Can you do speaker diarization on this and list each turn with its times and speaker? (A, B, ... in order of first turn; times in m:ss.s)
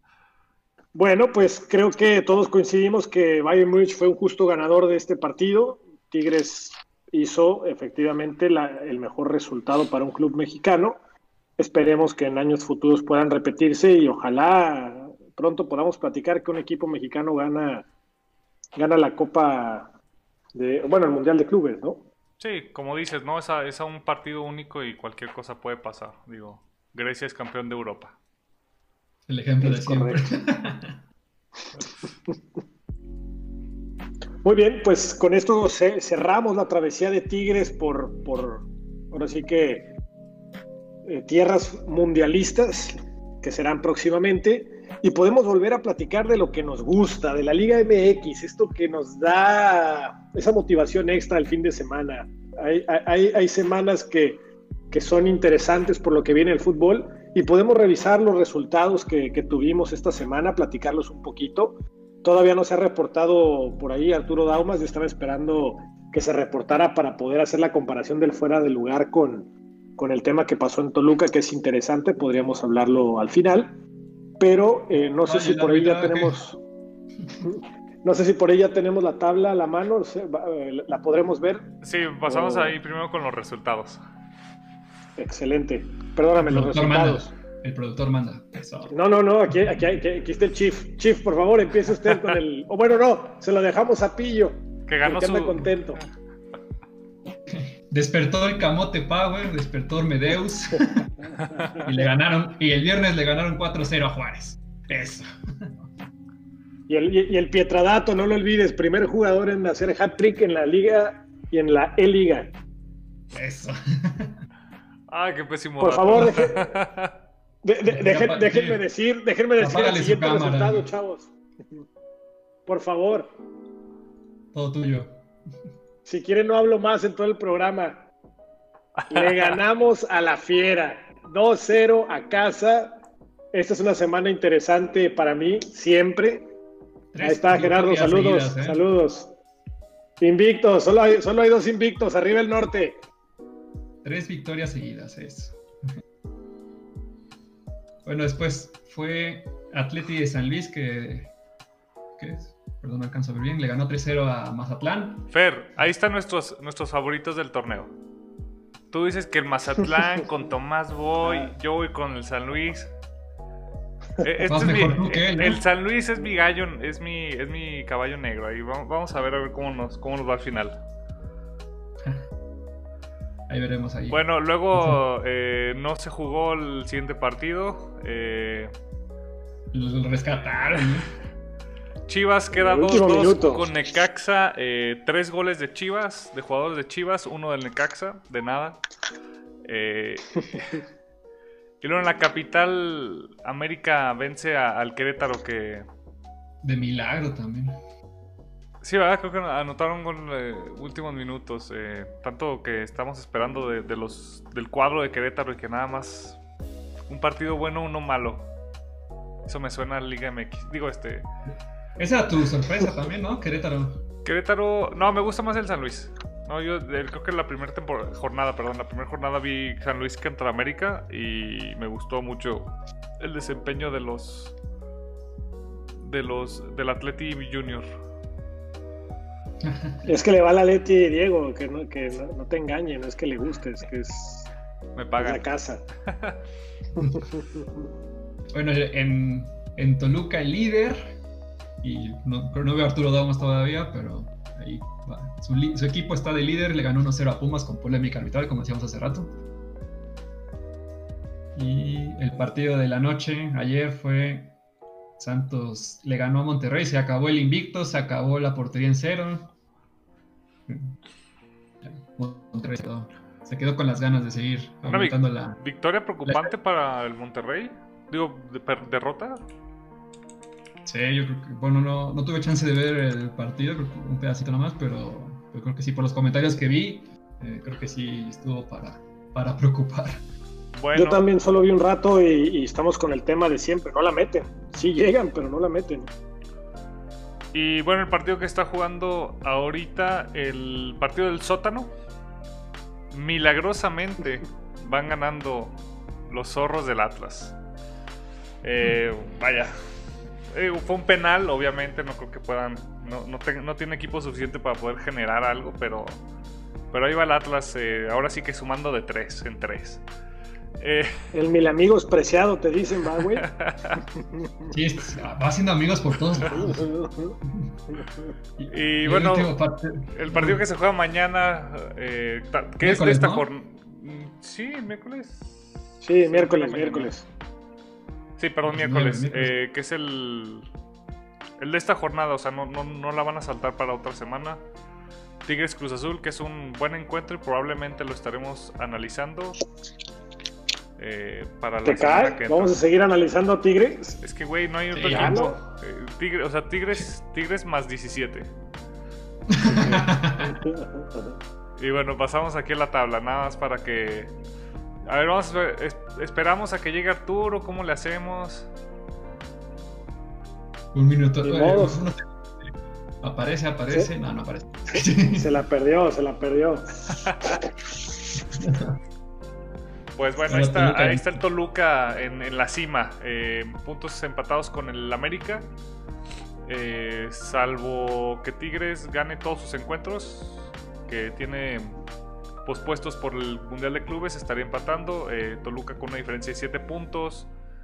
0:01.0-0:11.0 A
0:11.6-0:17.9 A
0:18.8-0:19.9 A
0:20.6-0:22.1 A
0:22.4-0:28.2 B
0:29.3-0:31.0 C
0:29.6-0:30.2 A
0:34.4-0:39.9 A
0:41.1-1:13.8 A
1:14.4-1:16.6 A
1:15.2-1:16.4 C
1:17.4-1:21.7 A
1:21.8-1:24.0 B
1:22.3-1:22.8 A
1:25.2-1:27.3 A
1:26.4-1:28.9 C
1:28.9-1:36.0 A
1:34.9-1:36.0 B
1:37.5-1:41.1 C
1:41.4-1:41.7 B
1:41.8-1:45.8 C
1:46.9-1:52.5 A
1:53.3-1:54.4 C
1:55.1-1:57.1 B
1:55.8-1:56.8 A
1:57.6-2:01.3 A
1:57.9-1:58.8 C
1:59.6-2:00.9 C
2:02.7-2:03.3 A
2:04.5-2:05.2 C
2:06.0-2:08.1 A
2:09.0-2:09.5 B
2:09.1-2:13.0 A
2:13.5-2:16.5 A
2:17.1-2:18.8 C
2:17.2-2:19.3 A
2:20.2-2:23.0 A
2:24.0-2:25.6 C
2:28.0-2:31.3 C
2:32.2-2:35.3 C
2:35.3-2:37.9 B
2:38.9-2:42.9 B
2:44.2-2:50.8 B
2:44.5-2:45.6 C
2:53.5-2:54.2 C
2:54.1-2:58.7 B
2:54.7-2:55.0 C
2:59.7-3:01.1 C
3:02.1-3:08.8 B
3:02.5-3:03.7 A
3:09.7-3:10.8 B
3:11.8-3:15.9 B
3:16.6-3:17.8 C
3:18.8-3:26.4 B
3:27.1-3:28.5 B
3:29.5-3:31.3 B
3:32.0-3:34.0 C
3:34.2-3:44.6 B
3:46.0-3:47.9 B
3:49.6-3:50.1 C
3:50.0-3:54.5 A
3:55.0-3:55.4 B
3:55.2-3:55.8 A
3:56.1-3:56.4 B
3:57.0-3:57.7 A
3:58.5-4:01.2 C
4:01.8-4:09.3 C
4:11.6-4:14.6 C
4:15.2-4:19.5 C
4:20.7-4:21.0 C
4:21.8-4:25.6 C
4:24.8-4:29.4 B
4:26.2-4:26.5 C
4:30.8-4:40.2 C
4:40.8-4:41.3 B
4:40.9-4:46.1 A
4:47.5-4:51.9 B
4:53.1-4:55.8 B
4:56.3-4:57.6 B
4:58.6-4:59.8 B
5:00.5-5:06.2 B
5:06.9-5:10.0 B
5:10.8-5:11.3 B
5:11.3-5:13.4 A
5:13.4-5:14.0 B
5:14.7-5:16.8 C
5:16.5-5:17.4 A
5:17.4-5:17.7 C
5:18.6-5:20.6 C
5:18.7-5:19.6 B
5:20.1-5:27.1 B
5:22.8-5:23.5 C
5:26.0-5:27.3 A
5:28.4-5:30.7 B
5:28.7-5:29.6 C
5:31.6-5:34.6 B
5:35.4-5:39.6 B
5:41.0-5:42.8 B
5:41.8-5:44.2 A
5:44.2-5:48.5 B
5:44.9-5:45.5 C
5:45.1-5:45.5 A
5:49.5-5:50.6 C
5:49.6-5:51.4 A
5:51.8-5:54.3 B
5:55.0-5:58.7 B
6:00.9-6:02.7 C
6:01.4-6:02.0 A
6:03.2-6:05.5 C
6:04.9-6:06.8 A
6:08.5-6:09.0 C
6:10.2-6:15.7 B
6:10.5-6:11.4 C
6:16.6-6:22.0 B
6:22.6-6:27.5 B